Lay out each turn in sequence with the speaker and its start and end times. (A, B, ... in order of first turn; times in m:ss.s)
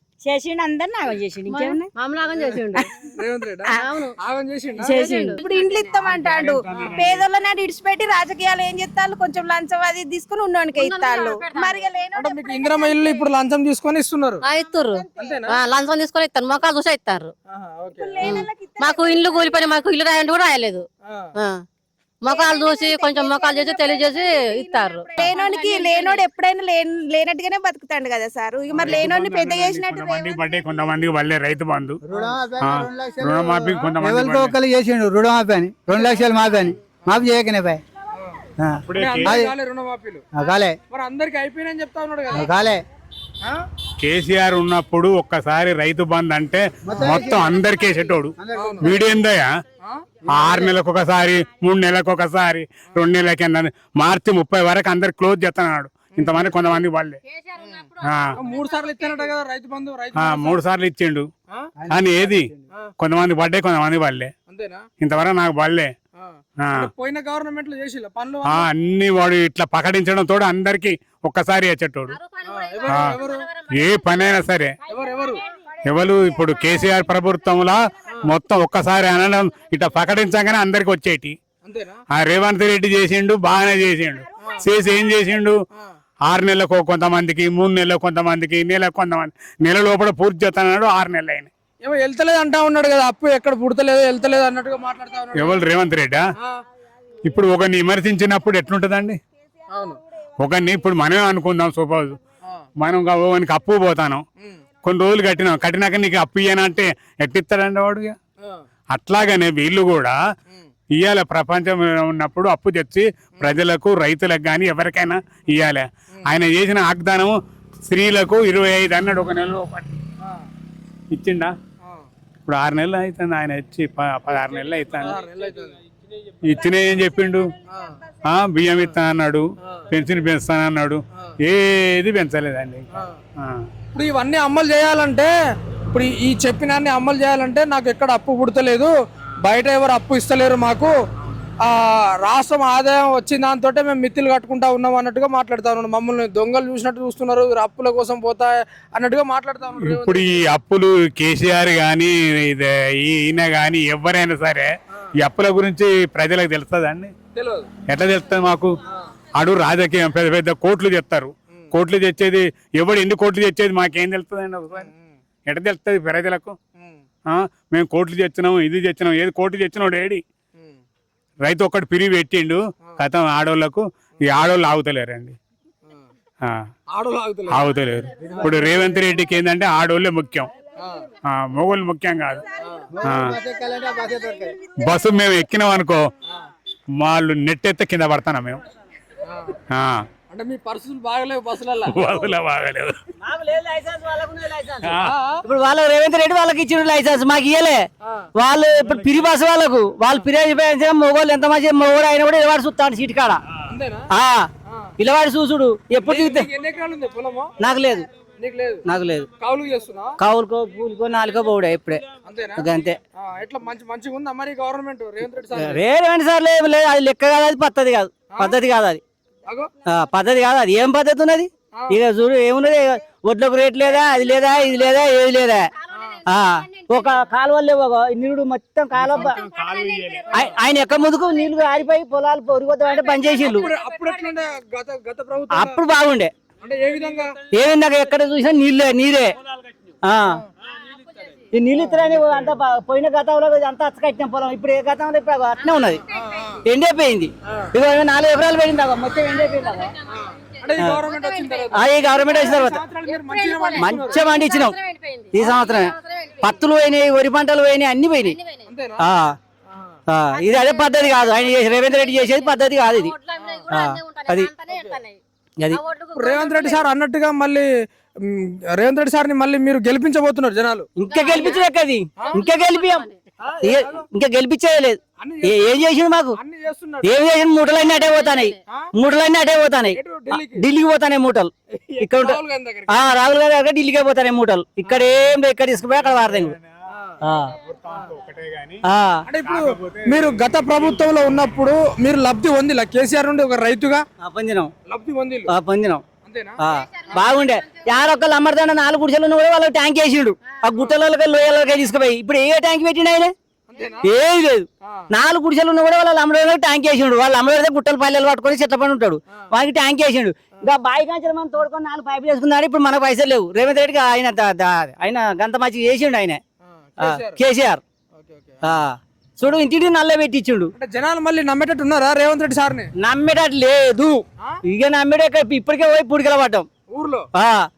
0:00.2-0:00.5 A
0:00.5-0:01.9 B
0:01.1-0:01.5 A
0:01.5-0:02.9 C
0:02.4-0:05.2 D
0:03.7-0:04.1 B
0:03.8-0:04.1 C
0:04.8-0:05.8 C
0:04.9-0:05.2 A
0:05.0-0:13.2 B
0:06.0-0:07.3 E
0:06.7-0:07.0 D
0:10.7-0:11.8 C
0:12.2-0:14.4 D
0:14.4-0:17.3 C
0:14.9-0:15.3 B
0:15.2-0:15.6 D
0:17.5-0:18.3 D
0:18.0-0:19.8 B
0:18.2-0:21.6 C
0:22.2-0:26.2 C
0:22.3-0:30.4 B
0:28.7-0:32.0 E
0:32.2-0:37.8 F
0:32.6-0:34.6 E
0:38.9-0:39.4 E
0:39.0-0:40.2 D
0:40.4-0:40.8 F
0:40.9-0:42.5 D
0:42.4-0:42.8 F
0:44.0-0:49.5 E
0:46.8-0:47.3 F
0:46.9-0:47.2 D
0:48.5-0:49.0 D
0:49.8-0:50.7 D
0:50.3-0:57.2 E
0:56.1-0:56.8 D
0:57.2-0:59.3 C
0:57.6-1:00.6 D
1:00.1-1:01.3 E
1:01.8-1:02.4 F
1:01.9-1:04.3 E
1:04.5-1:04.8 D
1:05.0-1:05.9 E
1:06.2-1:08.7 D
1:06.6-1:06.9 E
1:08.4-1:12.2 E
1:12.1-1:14.4 C
1:12.4-1:13.4 D
1:12.9-1:13.2 E
1:13.7-1:14.8 E
1:14.9-1:15.4 D
1:15.8-1:21.4 E
1:21.6-1:22.0 D
1:22.1-1:25.6 E
1:26.3-1:31.5 E
1:31.8-1:35.6 D
1:35.3-1:36.2 E
1:37.2-1:39.2 E
1:39.7-1:40.0 D
1:40.4-1:42.2 E
1:42.8-1:44.2 E
1:44.8-1:48.2 E
1:48.9-1:50.2 E
1:51.0-1:57.4 E
1:57.9-1:59.9 E
2:01.1-2:01.5 E
2:01.8-2:02.1 D
2:02.4-2:05.2 E
2:05.0-2:05.8 D
2:06.4-2:07.5 E
2:07.7-2:08.0 D
2:08.3-2:12.8 E
2:13.9-2:15.3 D
2:15.9-2:21.0 D
2:21.6-2:30.4 D
2:29.8-2:34.7 E
2:35.2-2:37.1 E
2:37.3-2:37.7 D
2:37.9-2:38.7 E
2:39.4-2:44.9 E
2:44.7-2:45.2 D
2:45.5-2:46.6 E
2:46.8-2:47.0 D
2:47.3-2:50.2 E
2:51.4-2:55.4 E
2:56.9-2:57.7 D
2:57.5-3:00.5 E
2:58.3-2:58.6 D
3:00.8-3:01.0 D
3:01.3-3:02.4 E
3:02.4-3:04.9 B
3:02.6-3:02.9 D
3:03.0-3:03.4 E
3:03.1-3:04.5 F
3:04.8-3:06.1 E
3:07.0-3:08.6 E
3:09.2-3:09.6 D
3:09.7-3:10.0 E
3:10.3-3:12.0 D
3:11.9-3:12.9 E
3:13.2-3:23.4 A
3:14.8-3:15.1 E
3:15.0-3:15.4 D
3:18.0-3:18.3 D
3:23.7-3:24.1 D
3:24.1-3:26.5 A
3:24.7-3:24.9 D
3:26.0-3:27.5 D
3:27.6-3:28.1 A
3:28.4-3:28.8 D
3:28.8-3:29.3 A
3:29.4-3:30.2 D
3:30.2-3:32.0 A
3:32.2-3:35.8 D
3:32.6-3:33.0 A
3:35.5-3:39.0 A
3:38.3-3:38.6 D
3:39.8-3:45.7 A
3:41.7-3:42.0 D
3:45.9-3:46.2 D
3:46.0-3:47.2 C
3:46.3-3:49.4 A
3:49.0-3:50.4 E
3:49.2-3:50.5 C
3:50.3-3:53.7 A
3:52.8-3:54.3 C
3:53.4-3:55.8 D
3:55.5-3:56.3 A
3:56.6-3:57.4 D
3:57.5-3:59.4 A
4:00.0-4:00.4 A
4:01.5-4:06.0 A
4:01.8-4:02.5 D
4:05.9-4:06.4 C
4:06.1-4:06.6 D
4:06.6-4:09.9 A
4:07.5-4:07.7 D
4:09.4-4:10.0 C
4:10.1-4:14.2 D
4:11.0-4:16.6 C
4:11.7-4:12.8 A
4:13.8-4:14.8 A
4:15.3-4:18.4 A
4:18.2-4:18.6 C
4:18.6-4:19.0 D
4:19.0-4:19.3 A
4:19.7-4:20.0 D
4:20.1-4:23.1 A
4:20.3-4:25.2 C
4:23.4-4:23.7 D
4:23.7-4:24.5 A
4:24.7-4:25.0 D
4:25.7-4:26.8 C
4:26.2-4:27.7 D
4:28.2-4:30.9 D
4:31.0-4:33.0 A
4:31.0-4:31.7 C
4:32.2-4:33.2 C
4:33.4-4:34.0 D
4:33.6-4:36.3 A
4:35.2-4:35.7 D
4:36.4-4:37.1 D
4:37.0-4:46.5 A
4:37.6-4:38.6 C
4:39.9-4:40.6 D
4:41.9-4:43.0 D
4:46.0-4:46.7 E
4:46.9-4:47.2 D
4:47.2-4:47.5 A
4:47.5-4:48.8 E
4:48.8-4:49.2 A
4:49.2-4:54.0 D
4:49.4-4:51.0 E
4:54.2-4:54.7 A
4:54.9-4:55.5 D
4:55.5-4:56.0 A
4:56.2-4:56.6 D
4:56.6-5:03.3 A
4:56.7-4:57.8 C
5:03.7-5:04.1 D
5:04.0-5:16.4 A
5:04.8-5:05.1 D
5:16.6-5:17.4 D
5:17.0-5:17.8 A
5:18.1-5:18.8 D
5:18.6-5:20.7 A
5:20.7-5:22.9 D
5:23.0-5:26.7 A
5:26.9-5:27.2 D
5:27.3-5:27.7 A